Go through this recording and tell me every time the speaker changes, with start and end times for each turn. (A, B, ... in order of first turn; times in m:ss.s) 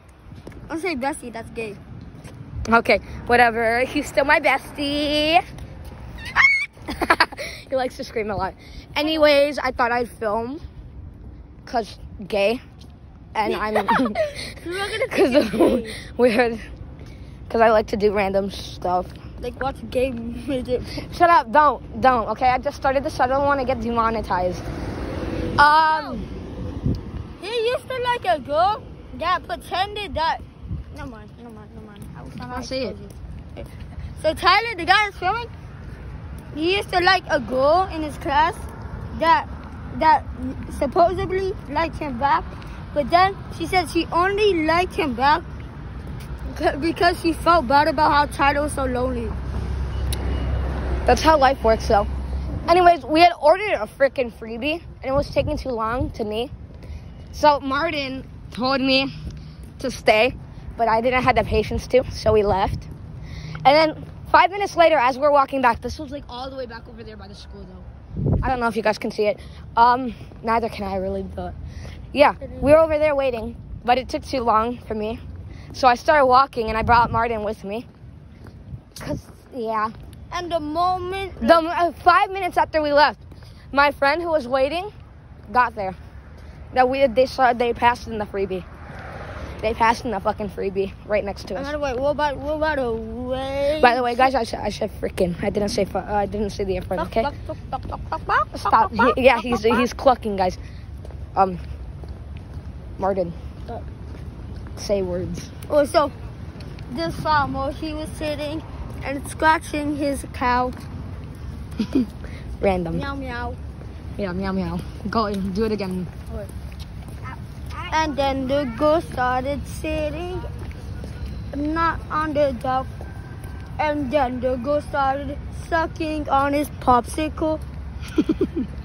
0:00.7-0:01.8 A
0:02.7-0:05.4 B
0:06.9-0:10.6 B
0:11.7-0:12.6 B
0:13.3-0:16.6 B
0:13.5-0:16.0 A
0:17.5-0:19.1 B
0:19.4-0:21.0 A
0:21.0-0:24.6 B
0:25.6-0:26.3 B
0:25.9-0:26.2 A
0:27.4-0:35.5 A
0:32.5-0:33.0 B
0:36.5-0:45.4 A
0:46.4-0:49.4 A
0:51.0-0:52.1 B
0:52.6-0:56.5 B
0:57.3-0:59.1 B
0:59.8-1:02.9 B
1:03.6-1:07.9 B
1:08.4-1:11.6 B
1:12.1-1:15.2 B
1:12.4-1:12.8 A
1:15.7-1:17.9 B
1:19.0-1:19.9 B
1:20.3-1:21.6 A
1:21.4-1:23.2 B
1:23.7-1:24.9 B
1:25.5-1:26.0 B
1:26.7-1:28.7 B
1:29.6-1:31.7 B
1:31.5-1:34.3 A
1:33.8-1:37.3 B
1:37.0-1:39.9 A
1:38.5-1:40.6 B
1:41.3-1:41.6 B
1:43.0-1:43.3 B
1:44.8-1:45.5 B
1:45.7-1:46.1 A
1:46.9-1:50.8 A
1:52.6-1:53.0 B
1:52.9-1:53.6 A
1:54.2-1:56.1 B
1:57.7-2:00.5 A
2:01.5-2:02.9 A
2:03.8-2:07.6 A